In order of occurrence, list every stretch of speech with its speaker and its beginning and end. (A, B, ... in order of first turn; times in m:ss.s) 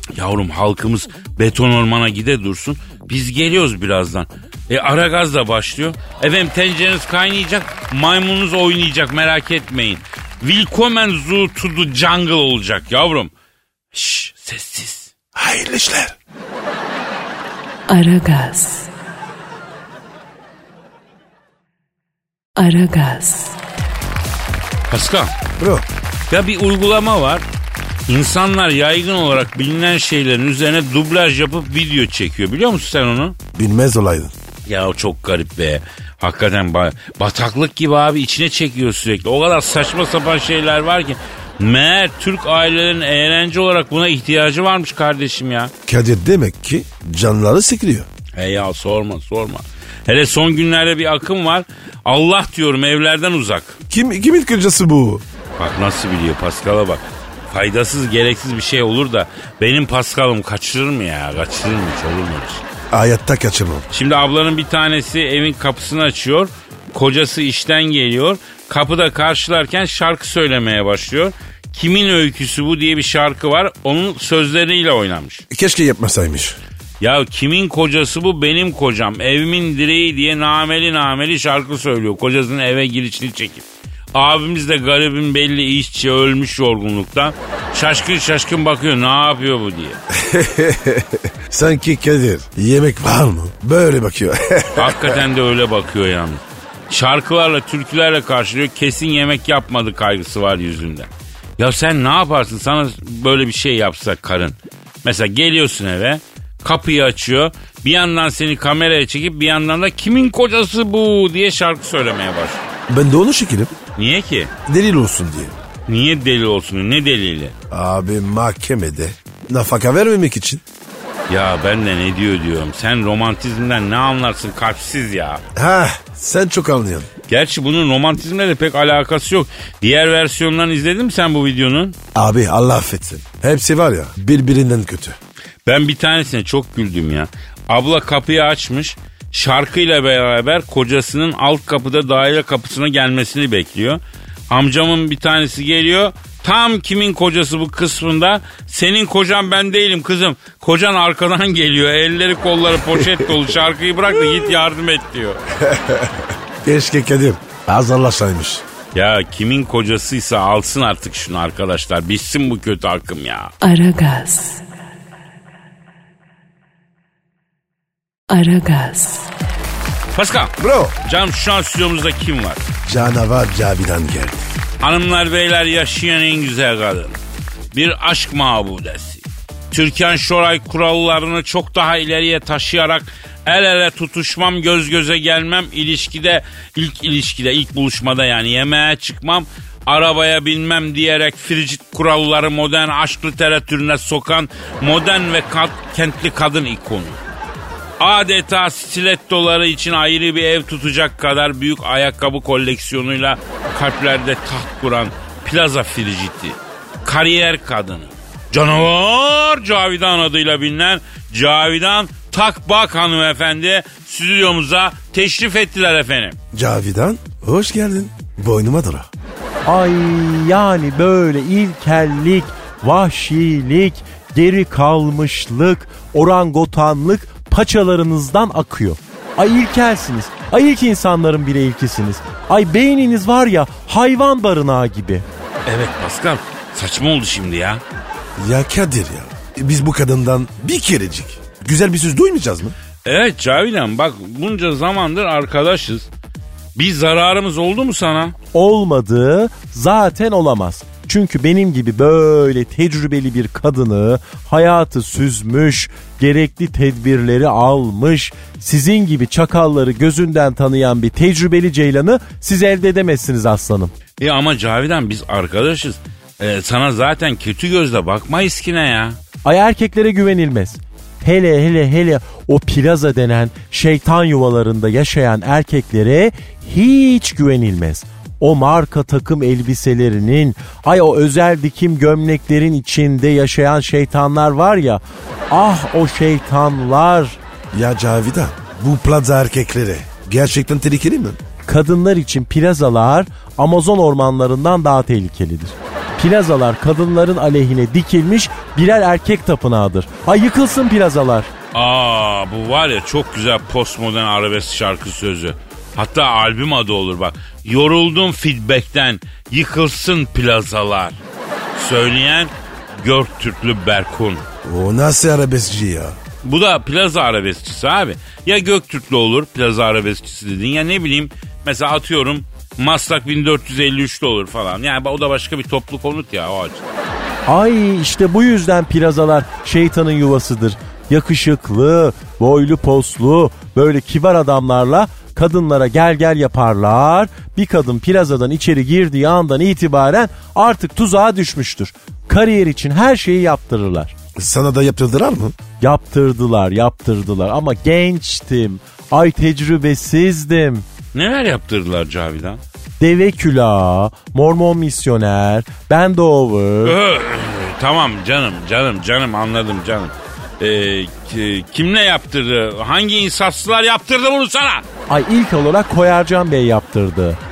0:00.2-0:13.3 A
0:13.9-0:15.1 A
0:15.4-0:16.2 B
0:17.9-0:18.9 C
0:22.6-0:23.6 C
0:24.9-0:25.3 A
0:25.6-0:25.9 B
0:26.3-0:27.4 A
0:28.1-0:33.4 A
0:33.5-0:34.3 B
0:34.7-0:45.7 A
0:45.9-0:48.1 B
0:48.4-0:53.8 A
0:53.9-0:55.2 B
0:55.6-1:02.6 A
1:02.9-1:03.9 B
1:03.9-1:15.4 A
1:15.5-1:16.6 B
1:17.0-1:30.0 A
1:30.1-1:35.2 B
1:34.8-1:52.6 A
1:52.9-1:53.7 B
1:54.0-1:54.5 A
1:54.7-1:55.6 B
1:55.9-1:57.5 A
1:57.7-2:00.6 B
2:01.3-2:05.4 A
2:05.6-2:07.1 B
2:07.3-2:11.9 A
2:12.1-2:15.2 B
2:15.7-2:35.4 A
2:35.6-2:38.6 B
2:38.9-2:43.5 A
2:43.6-2:44.6 C
2:48.3-2:49.3 C
2:50.1-2:52.6 A
2:50.6-2:51.0 B
2:52.9-2:54.4 B
2:54.8-2:57.2 A
2:57.7-3:17.2 A
3:18.0-3:36.4 A
3:36.5-3:39.1 B
3:39.7-3:55.2 D
3:55.7-3:57.8 A
3:58.4-4:02.8 B
4:03.0-4:06.1 A
4:06.8-4:08.4 A
4:08.5-4:23.9 D
4:24.2-4:29.2 A
4:29.4-4:47.4 D
4:47.7-4:51.4 B
4:51.7-5:01.5 D
5:01.7-5:11.2 A
5:11.7-5:14.5 A
5:14.6-5:16.2 B
5:16.4-5:26.8 A
5:27.5-5:44.1 D
5:44.4-5:45.6 B
5:45.8-5:50.9 D
5:51.1-5:52.6 A
5:53.0-5:57.0 D
5:56.8-6:04.8 A
6:05.1-6:07.4 D